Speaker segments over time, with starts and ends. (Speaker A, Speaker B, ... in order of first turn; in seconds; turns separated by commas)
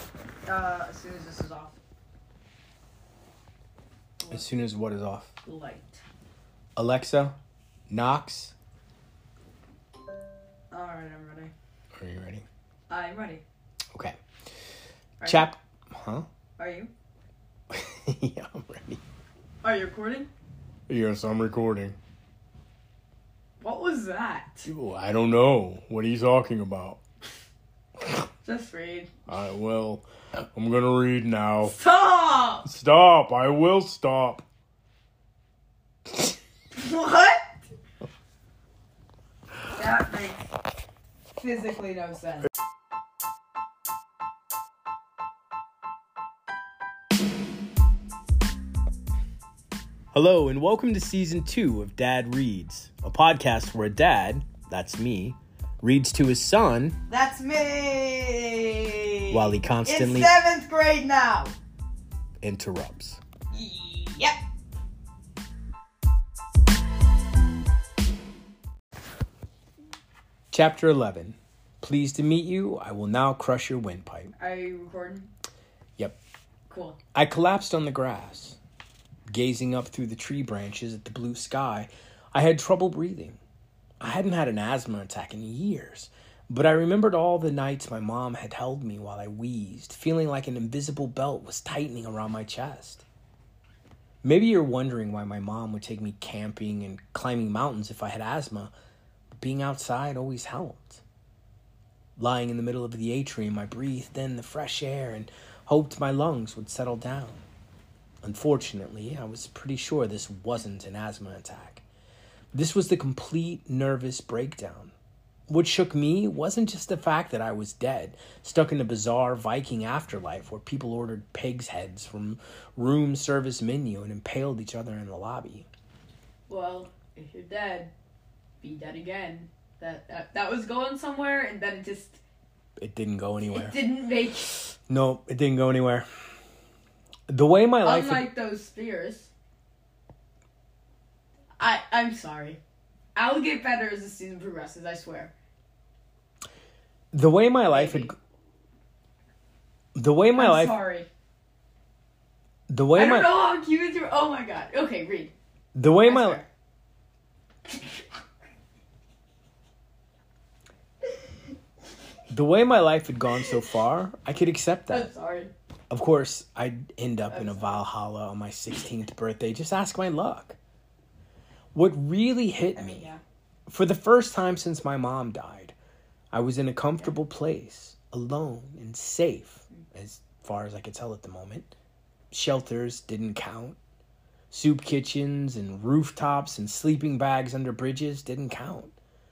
Speaker A: 0.5-1.8, Speaker A: 4.2-4.5, Speaker B: 4.3-5.3, Speaker A: 5.4-6.0, Speaker B: 6.8-7.4, Speaker B: 7.9-8.6, Speaker A: 10.7-11.5, Speaker B: 11.9-12.5, Speaker A: 12.9-13.4, Speaker B: 13.9-14.2, Speaker A: 15.2-15.5, Speaker B: 15.2-16.3, Speaker A: 16.6-16.9, Speaker B: 17.7-19.0, Speaker A: 19.6-20.3, Speaker B: 20.9-22.0, Speaker A: 23.6-24.7, Speaker B: 24.7-27.0, Speaker A: 28.4-29.1, Speaker B: 29.3-31.8, Speaker A: 31.6-32.7, Speaker B: 32.6-34.5, Speaker A: 36.7-37.6, Speaker A: 39.7-40.5, Speaker A: 41.4-42.5, Speaker B: 50.1-57.0, Speaker A: 57.1-61.5, Speaker B: 59.3-60.4, Speaker B: 62.4-63.2, Speaker A: 63.5-64.4, Speaker B: 70.5-74.3, Speaker A: 74.4-75.3, Speaker A: 76.7-77.0, Speaker B: 77.1-78.6, Speaker B: 79.3-83.4, Speaker B: 84.0-93.0, Speaker B: 94.2-98.7, Speaker B: 99.4-101.0, Speaker B: 102.2-107.4, Speaker B: 108.2-111.8, Speaker B: 112.5-114.9, Speaker B: 115.5-125.7, Speaker A: 126.5-127.9, Speaker A: 128.6-132.2, Speaker B: 132.8-133.8, Speaker A: 133.5-134.8, Speaker B: 134.9-136.1, Speaker B: 137.3-138.3, Speaker A: 137.8-139.3, Speaker A: 141.6-142.6, Speaker A: 143.2-145.3, Speaker B: 147.1-148.2, Speaker A: 147.7-148.1, Speaker B: 149.9-150.8, Speaker A: 150.3-151.1, Speaker B: 152.7-153.4, Speaker A: 152.9-155.3, Speaker B: 155.7-156.4, Speaker A: 156.0-156.5, Speaker A: 157.7-158.0, Speaker B: 162.3-165.1, Speaker A: 164.9-165.5, Speaker B: 165.9-170.6, Speaker A: 167.3-167.8, Speaker B: 171.7-173.1, Speaker A: 172.8-173.2, Speaker B: 173.7-175.8, Speaker B: 176.3-181.7, Speaker B: 182.3-183.8, Speaker B: 184.5-188.9